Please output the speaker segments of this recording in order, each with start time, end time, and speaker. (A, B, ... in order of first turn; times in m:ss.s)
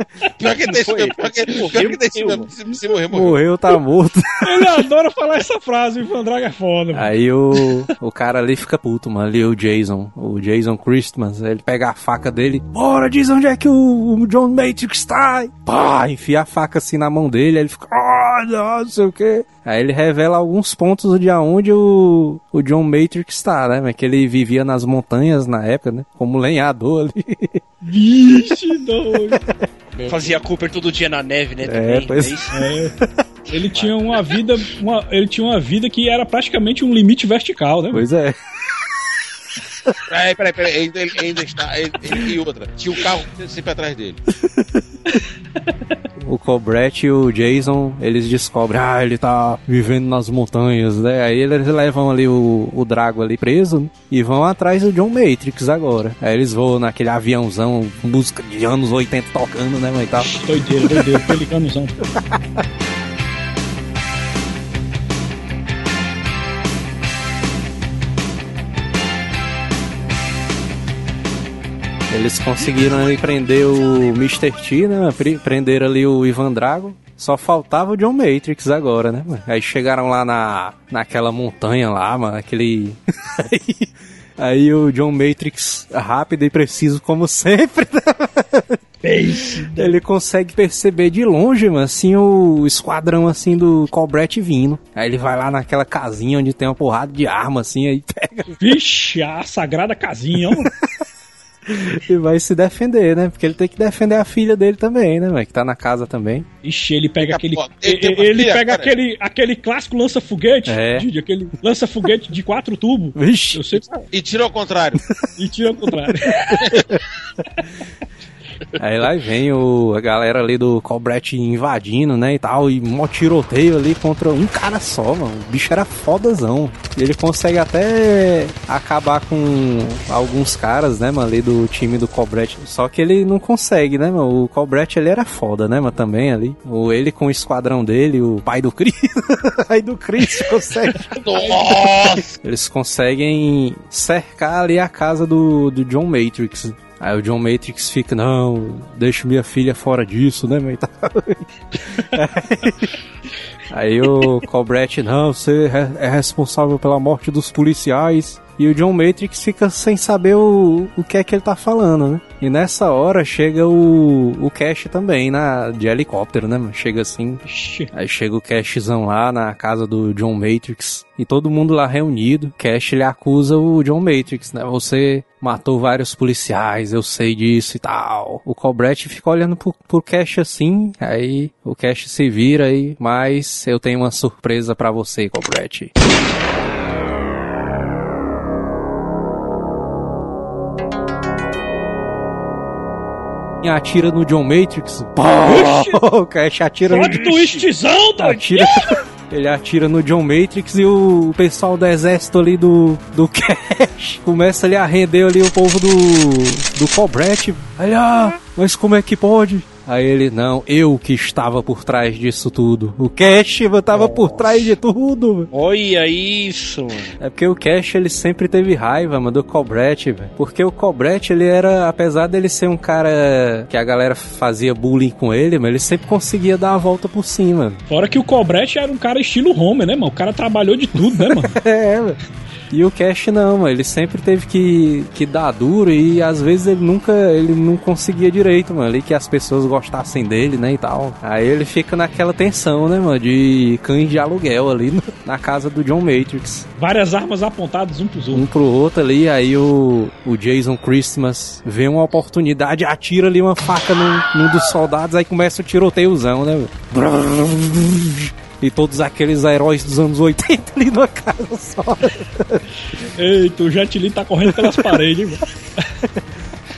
0:00.4-0:03.4 A
0:00.6-0:02.5 B
0:03.1-0:04.6 C
0:04.4-0:07.1 D
0:06.9-0:27.6 C
0:27.8-0:29.4 D
0:29.2-0:29.6 C
0:30.0-0:32.6 B
0:31.6-0:32.4 C
0:32.5-0:32.9 D
0:33.5-0:38.0 D
0:37.9-0:38.4 C
0:40.1-0:44.2 A
0:46.2-1:01.2 C
1:00.2-1:02.0 D
1:02.1-1:02.6 C
1:12.1-1:28.8 C
1:29.0-1:30.0 D
1:29.3-1:38.6 C
1:38.6-1:40.7 D
1:40.5-1:41.0 C
1:41.7-1:46.5 C
1:46.6-1:54.0 D
1:47.2-1:48.9 A
1:50.6-1:51.1 C
1:53.1-1:53.8 C
1:54.1-1:55.0 A
1:55.4-1:56.6 D
1:56.1-1:57.0 C
1:56.6-1:56.8 A
1:58.8-2:21.2 C
2:21.1-2:22.3 A
2:22.4-2:33.0 C
2:33.7-3:05.9 C
2:47.4-2:47.9 D
3:13.6-3:35.5 C
3:15.4-3:16.0 D
3:16.9-3:19.0 D
3:34.0-3:34.5 B
3:35.5-3:37.1 B
3:37.2-3:47.8 C
3:47.9-3:51.5 D
3:51.1-3:52.2 C
3:52.7-4:06.7 C
4:06.8-4:08.4 D
4:08.3-4:22.6 C
4:23.1-4:25.4 D
4:24.5-4:25.0 C